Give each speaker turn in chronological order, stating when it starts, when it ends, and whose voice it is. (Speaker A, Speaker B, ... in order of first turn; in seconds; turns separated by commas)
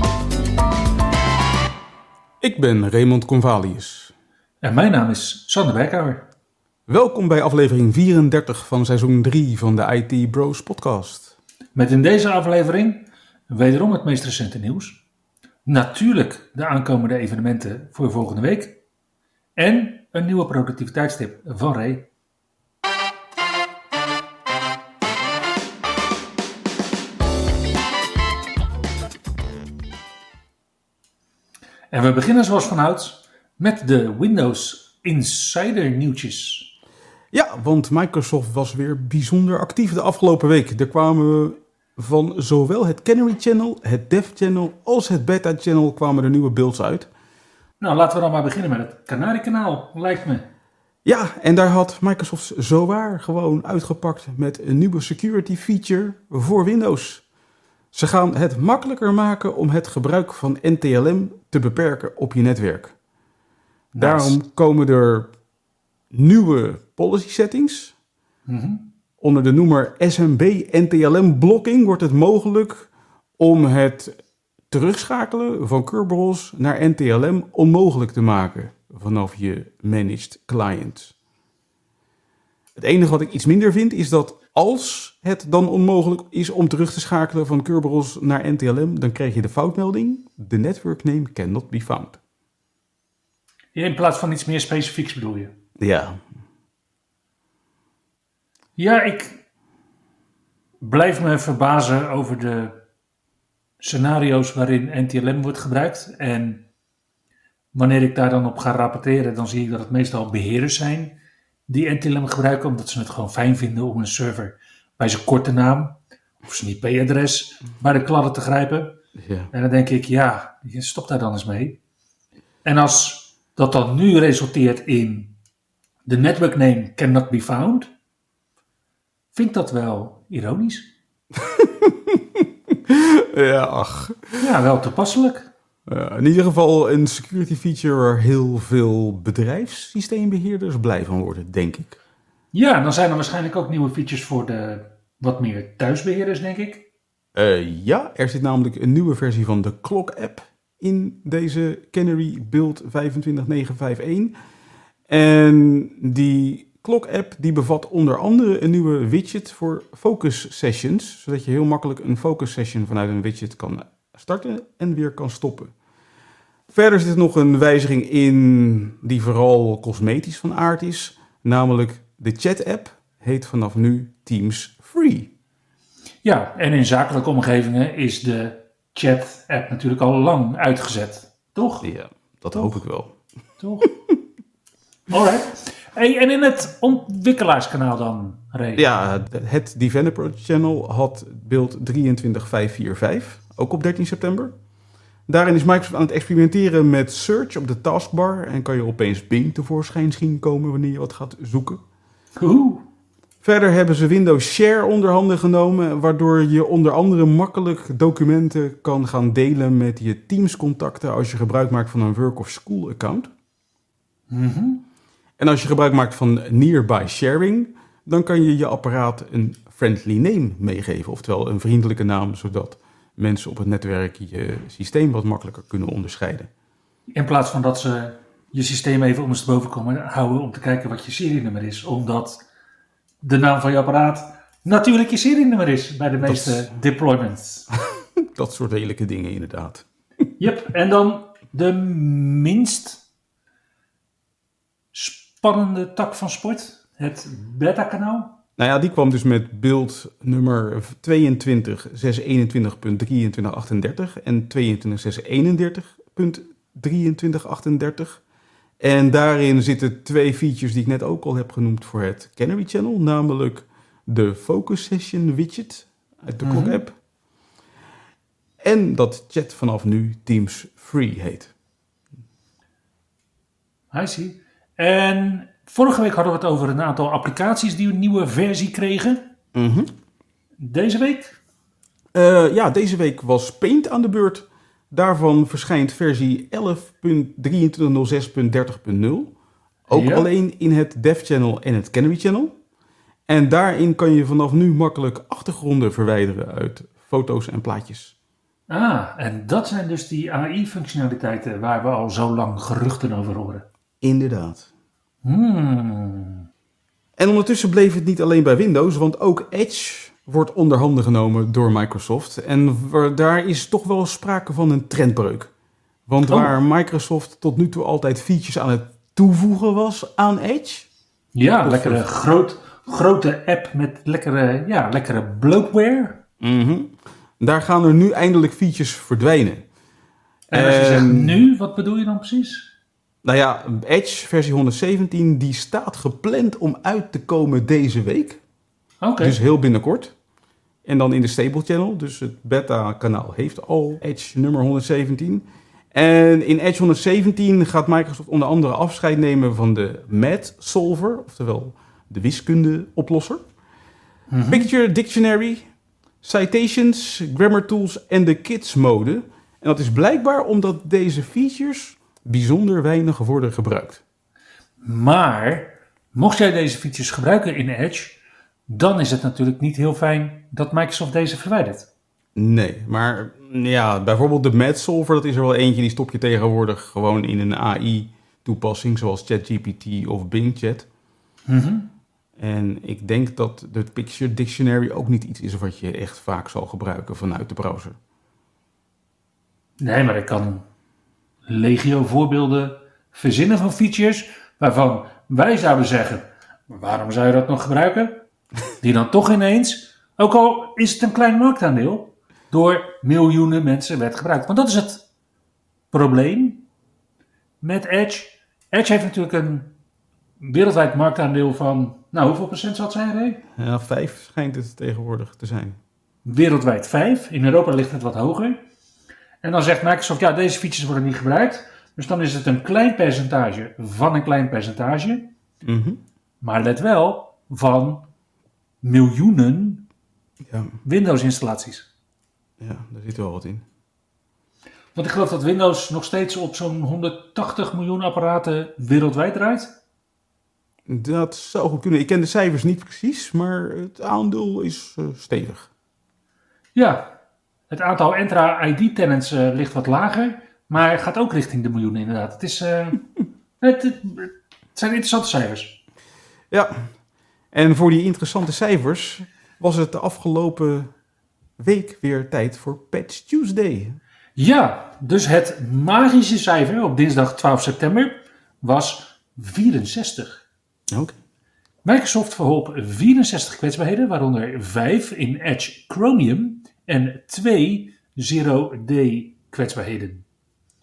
Speaker A: 2.4-4.1, Speaker B: 4.6-6.3, Speaker A: 6.9-11.4, Speaker B: 11.8-15.0, Speaker B: 15.7-18.8, Speaker B: 19.6-22.1, Speaker B: 31.9-36.7, Speaker A: 37.3-47.1, Speaker B: 47.8-50.5, Speaker A: 51.0-57.2, Speaker A: 57.9-62.9, Speaker B: 63.9-64.4, Speaker A: 64.0-65.3, Speaker A: 66.1-67.9, Speaker B: 68.5-68.9, Speaker A: 69.2-74.1, Speaker A: 74.7-81.1, Speaker A: 82.8-92.2, Speaker B: 93.8-95.5, Speaker A: 95.8-96.2, Speaker B: 98.8-99.4, Speaker B: 100.8-102.8, Speaker B: 103.8-106.7, Speaker B: 107.7-119.0, Speaker A: 119.2-119.5, Speaker B: 119.5-121.8, Speaker B: 122.6-125.3, Speaker B: 126.1-127.9, Speaker B: 129.3-130.9, Speaker A: 131.4-134.4, Speaker B: 134.4-135.5, Speaker A: 135.9-142.0, Speaker B: 142.5-146.9, Speaker A: 147.3-154.3, Speaker A: 155.1-165.7, Speaker A: 166.7-175.3, Speaker B: 176.2-181.9, Speaker A: 181.8-183.2, Speaker B: 183.6-183.9, Speaker B: 185.1-188.9, Speaker A: 188.8-194.5, Speaker A: 195.3-201.8, Speaker B: 202.4-202.8, Speaker A: 203.4-213.3, Speaker B: 214.3-214.8, Speaker A: 215.4-226.5, Speaker B: 227.1-232.4, Speaker B: 233.2-237.7, Speaker A: 236.2-236.7, Speaker A: 237.8-239.8, Speaker B: 240.4-243.0, Speaker B: 244.9-248.4, Speaker A: 248.6-258.2, Speaker A: 258.8-267.0, Speaker B: 266.4-266.8, Speaker A: 268.6-271.5, Speaker B: 273.9-279.3, Speaker A: 279.6-279.9, Speaker B: 280.6-281.4, Speaker A: 282.1-289.3, Speaker A: 289.9-292.5, Speaker B: 289.9-290.3, Speaker A: 293.3-298.1, Speaker B: 298.7-303.6, Speaker A: 304.0-304.7, Speaker B: 305.2-306.4, Speaker A: 307.2-315.5, Speaker A: 316.1-320.9, Speaker B: 316.3-316.5, Speaker B: 321.4-326.2, Speaker A: 321.6-322.1, Speaker A: 326.4-329.6, Speaker B: 330.5-332.7, Speaker A: 330.5-331.4, Speaker A: 333.2-338.4, Speaker B: 339.0-339.4, Speaker A: 339.2-340.1, Speaker A: 340.9-353.4, Speaker B: 354.3-354.7, Speaker A: 354.5-355.7, Speaker A: 356.2-364.0, Speaker B: 364.8-371.9, Speaker A: 372.4-380.9, Speaker B: 381.5-381.9, Speaker A: 382.4-388.0, Speaker B: 389.8-390.7, Speaker B: 391.5-398.2, Speaker B: 398.8-405.1, Speaker B: 405.9-406.7, Speaker B: 407.6-409.8, Speaker B: 410.4-413.4, Speaker A: 413.6-415.8, Speaker B: 416.2-418.6, Speaker B: 419.4-425.3, Speaker A: 425.6-426.0, Speaker B: 426.4-428.1, Speaker B: 428.8-429.9, Speaker A: 430.5-430.7, Speaker B: 430.8-431.9, Speaker A: 432.6-433.6, Speaker B: 434.9-439.8, Speaker A: 440.9-445.7, Speaker B: 446.8-447.1, Speaker B: 447.7-453.0, Speaker B: 453.6-455.8, Speaker A: 456.5-456.9, Speaker A: 457.5-460.9, Speaker A: 461.6-464.0, Speaker B: 464.4-470.4, Speaker B: 471.9-480.2